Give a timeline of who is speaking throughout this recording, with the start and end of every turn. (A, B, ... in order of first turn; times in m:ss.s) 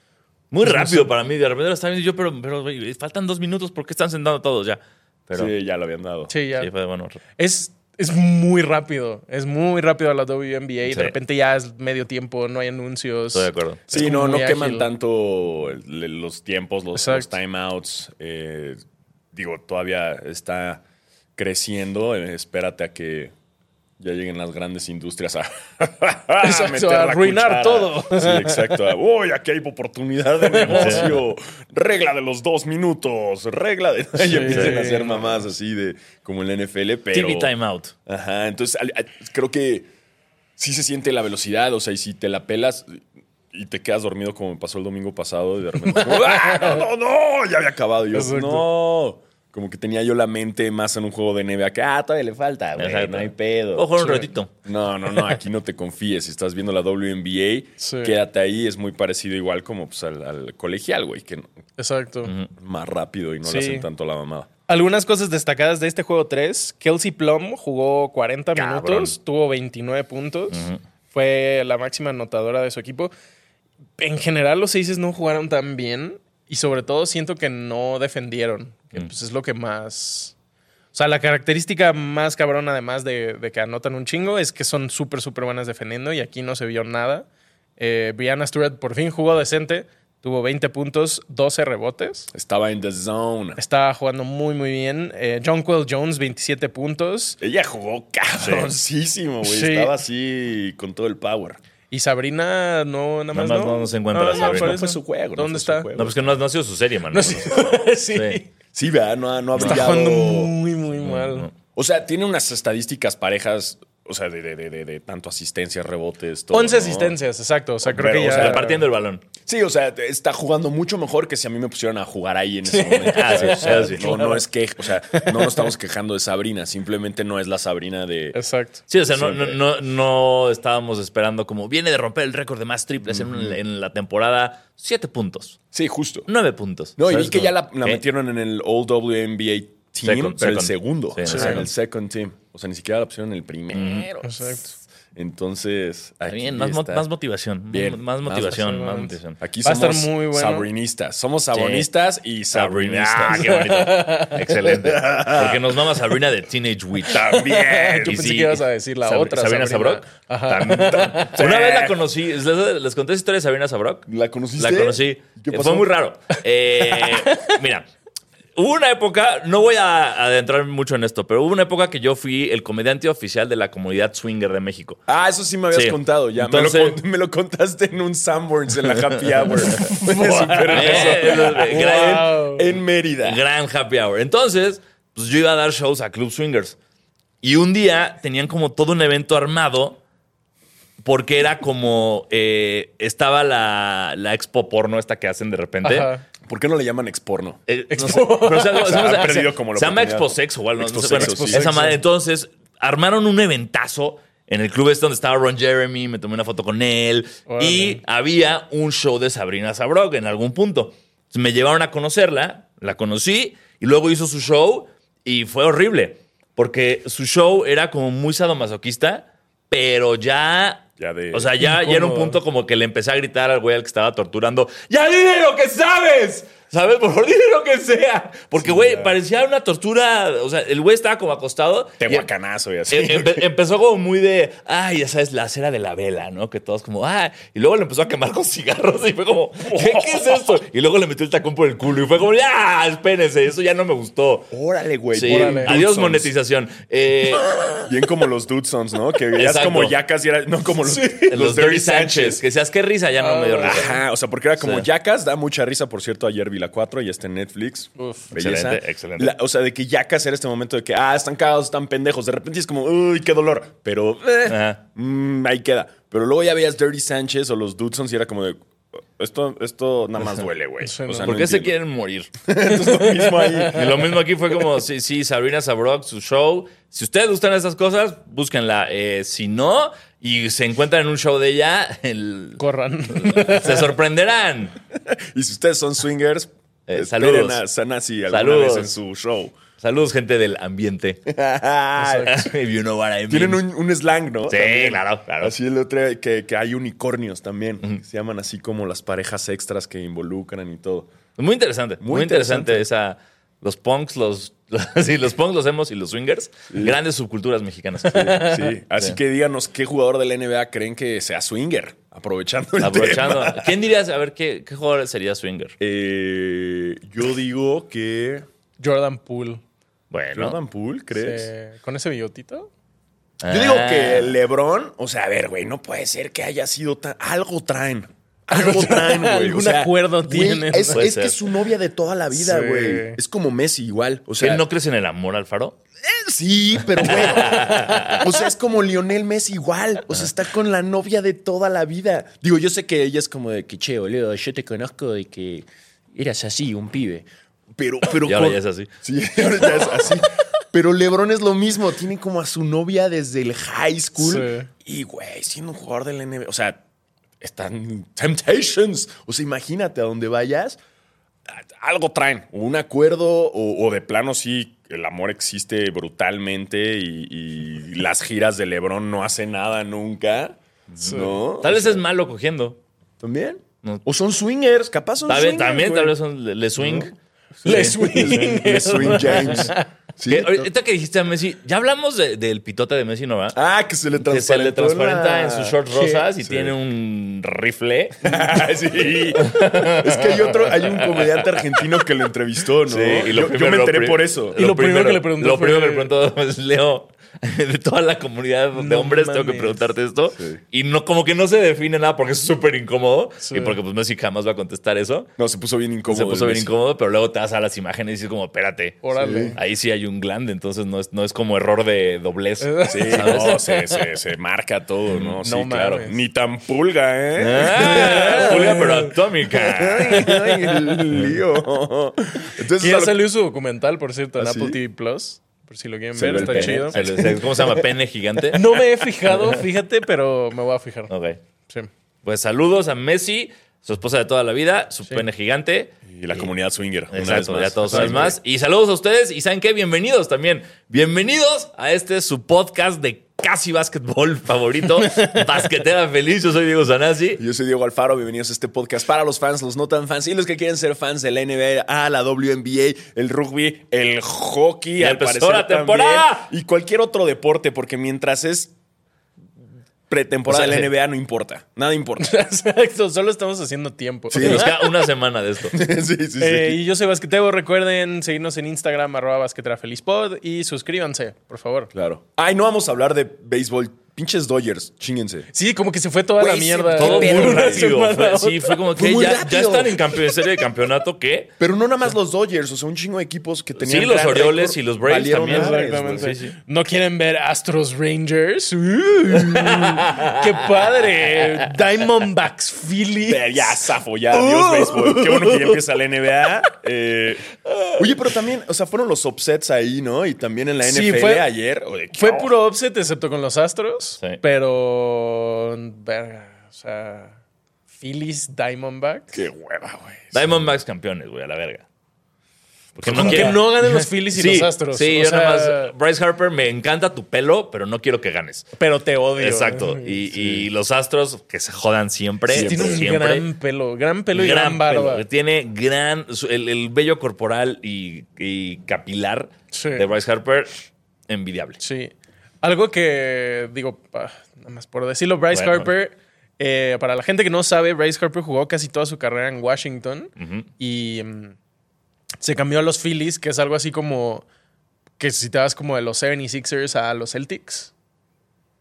0:00.5-0:05.5 A
0:00.6-0:01.1 B
0:05.3-0:06.3 C
0:06.3-0:06.7 B
0:06.6-0:07.2 A
0:07.4-0:14.9 B
0:10.8-0:11.1 A
0:13.3-0:13.8 A
0:13.9-0:18.8 C
0:16.9-0:17.3 B
0:19.3-0:20.8 C
0:21.4-0:23.3 C
0:24.0-0:37.5 C
0:26.4-0:28.8 B
0:30.5-0:31.1 B
0:30.6-0:31.1 A
0:34.2-0:35.4 B
0:34.5-0:34.8 A
0:37.1-0:37.9 A
0:38.0-0:39.9 C
0:40.6-1:01.5 C
0:45.9-0:46.8 B
0:48.1-0:48.7 B
0:52.8-0:54.5 A
0:54.0-0:54.2 B
0:57.8-0:58.2 B
1:01.8-1:02.3 B
1:02.2-1:02.5 A
1:02.6-1:04.5 C
1:03.4-1:03.9 B
1:04.7-1:10.6 B
1:08.6-1:09.1 A
1:10.5-1:10.8 A
1:11.1-1:13.1 B
1:14.0-1:20.3 B
1:20.9-1:27.3 B
1:27.8-1:32.3 B
1:32.3-1:33.6 C
1:33.6-1:37.4 B
1:37.4-1:41.6 C
1:38.4-1:38.7 A
1:39.4-1:39.9 B
1:41.9-1:45.9 B
1:43.3-1:44.9 A
1:44.3-1:46.4 C
1:46.0-1:48.4 A
1:47.1-1:48.4 B
1:48.7-1:50.6 C
1:49.6-1:49.9 A
1:49.6-1:51.5 B
1:51.0-1:51.5 A
1:51.7-1:57.2 C
1:56.5-1:58.8 B
1:57.8-1:58.7 C
1:58.3-1:59.2 A
1:59.4-2:08.4 C
2:02.6-2:04.4 B
2:03.1-2:04.1 A
2:05.1-2:05.7 B
2:08.3-2:08.8 B
2:08.9-2:15.6 A
2:09.1-2:09.6 C
2:13.0-2:13.6 C
2:15.7-2:16.3 C
2:16.3-2:18.0 A
2:17.0-2:27.1 C
2:20.0-2:21.7 A
2:21.2-2:21.6 B
2:23.7-2:24.1 A
2:24.2-2:24.6 B
2:26.3-2:29.4 A
2:27.7-2:28.7 C
2:28.6-2:30.7 B
2:29.4-2:33.8 C
2:31.5-2:31.9 A
2:32.5-2:37.2 A
2:33.4-2:34.4 B
2:34.5-2:36.1 C
2:37.0-2:38.2 C
2:37.5-2:41.4 B
2:38.0-2:44.1 A
2:41.2-2:42.0 C
2:44.1-2:45.9 C
2:44.6-2:47.9 A
2:46.9-2:47.6 B
2:48.6-2:55.0 A
2:55.1-3:03.4 C
2:55.7-2:57.0 A
2:58.8-2:59.5 A
2:59.7-3:02.6 B
3:00.7-3:02.3 A
3:03.2-3:06.8 A
3:07.4-3:10.0 A
3:11.0-3:16.1 A
3:15.8-3:16.2 B
3:16.4-3:17.6 C
3:17.7-3:52.3 A
3:17.9-3:19.3 B
3:18.8-3:21.7 C
3:21.0-3:22.0 B
3:27.5-3:28.0 B
3:41.0-3:41.5 C
3:41.6-3:42.4 B
3:48.6-3:49.2 C
3:52.0-3:53.5 C
3:52.9-4:04.5 A
3:59.7-4:00.6 C
4:04.5-4:06.3 C
4:05.1-4:07.6 A
4:05.3-4:05.7 B
4:07.8-4:12.4 C
4:09.3-4:09.9 A
4:11.3-4:13.9 A
4:13.2-4:13.9 B
4:13.6-4:31.7 C
4:14.6-4:14.8 A
4:18.0-4:18.3 B
4:18.3-4:19.3 A
4:24.5-4:24.8 A
4:30.8-4:31.3 B
4:31.2-4:32.3 A
4:32.4-4:34.1 C
4:32.7-4:33.7 B
4:33.7-4:42.6 A
4:42.6-4:43.9 B
4:43.1-4:44.8 A
4:44.9-4:49.6 C
4:46.9-4:47.6 A
4:48.3-4:49.0 A
4:49.8-4:51.2 A
4:51.3-4:52.5 C
4:52.0-4:52.4 B
4:52.3-4:53.6 A
4:53.3-5:01.1 C
4:54.5-4:55.5 A
5:01.4-5:09.2 A
5:02.0-5:02.9 C
5:06.7-5:07.0 C
5:08.1-5:13.7 C
5:12.8-5:15.8 A
5:15.8-5:18.4 C
5:18.8-5:19.6 B
5:20.1-5:20.6 A
5:20.3-5:21.5 C
5:21.1-5:22.7 B
5:23.4-5:24.4 A
5:23.5-5:34.6 C
5:28.5-5:31.1 B
5:30.9-5:31.4 A
5:32.3-5:33.2 B
5:34.4-5:35.8 A
5:36.0-5:56.8 C
5:37.0-5:38.2 A
5:48.2-5:48.9 A
5:54.2-5:54.7 B
5:57.4-6:00.8 C
6:01.5-6:12.0 C
6:11.0-6:12.8 A
6:11.0-6:11.3 B
6:13.2-6:16.1 C
6:15.3-6:19.7 A
6:16.8-6:17.1 C
6:17.6-6:20.7 C
6:17.6-6:19.8 B
6:20.3-6:23.6 A
6:23.5-6:25.8 C
6:24.2-6:28.5 A
6:25.9-6:26.2 B
6:26.4-6:26.7 C
6:28.2-6:34.6 C
6:29.3-6:31.8 A
6:32.8-6:45.3 A
6:34.6-6:36.1 B
6:38.7-6:39.8 B
6:40.3-6:40.6 C
6:43.4-6:43.8 B
6:45.4-6:46.7 C
6:46.1-6:49.0 A
6:49.0-6:49.6 B
6:49.2-6:49.6 C
6:49.6-6:53.6 A
6:52.6-6:54.0 B
6:52.9-6:58.9 C
6:55.4-6:56.2 B
6:57.4-7:00.4 A
6:57.8-6:59.1 B
6:59.5-7:03.2 C
7:00.1-7:00.8 B
7:02.8-7:07.0 B
7:04.4-7:04.8 C
7:06.1-7:07.8 C
7:06.3-7:08.7 A
7:08.5-7:11.1 B
7:11.1-7:11.4 A
7:12.2-7:16.5 A
7:16.1-7:18.4 C
7:17.1-7:27.4 A
7:17.9-7:18.3 B
7:25.1-7:25.4 B
7:27.4-7:38.7 C
7:35.0-7:36.5 A
7:40.1-7:42.3 C
7:40.5-7:40.9 A
7:42.2-7:44.8 B
7:44.3-7:44.7 C
7:44.4-7:45.8 A
7:45.7-7:46.8 C
7:46.4-7:51.9 B
7:51.9-7:55.5 C
7:55.5-7:58.8 B
7:56.4-7:57.9 C
7:56.9-8:01.5 A
7:58.9-8:00.3 C
8:01.6-8:06.3 C
8:03.8-8:06.5 A
8:05.4-8:13.8 B
8:09.5-8:10.4 A
8:13.3-8:17.4 C
8:14.3-8:15.5 B
8:17.7-8:18.0 A
8:18.0-8:22.5 C
8:20.8-8:21.5 B
8:22.1-8:27.4 B
8:28.0-8:29.4 B
8:29.3-8:30.6 C
8:30.3-8:31.8 A
8:33.0-8:33.6 C
8:33.0-8:38.7 A
8:33.1-8:35.9 B
8:38.8-8:40.3 B
8:39.4-8:43.4 A
8:42.5-8:43.1 C
8:42.5-8:45.2 B
8:44.3-8:51.8 A
8:49.7-8:50.0 B
8:51.8-9:01.6 B
8:55.5-8:55.9 A
9:00.4-9:00.7 A
9:02.4-9:04.4 B
9:05.2-9:07.9 B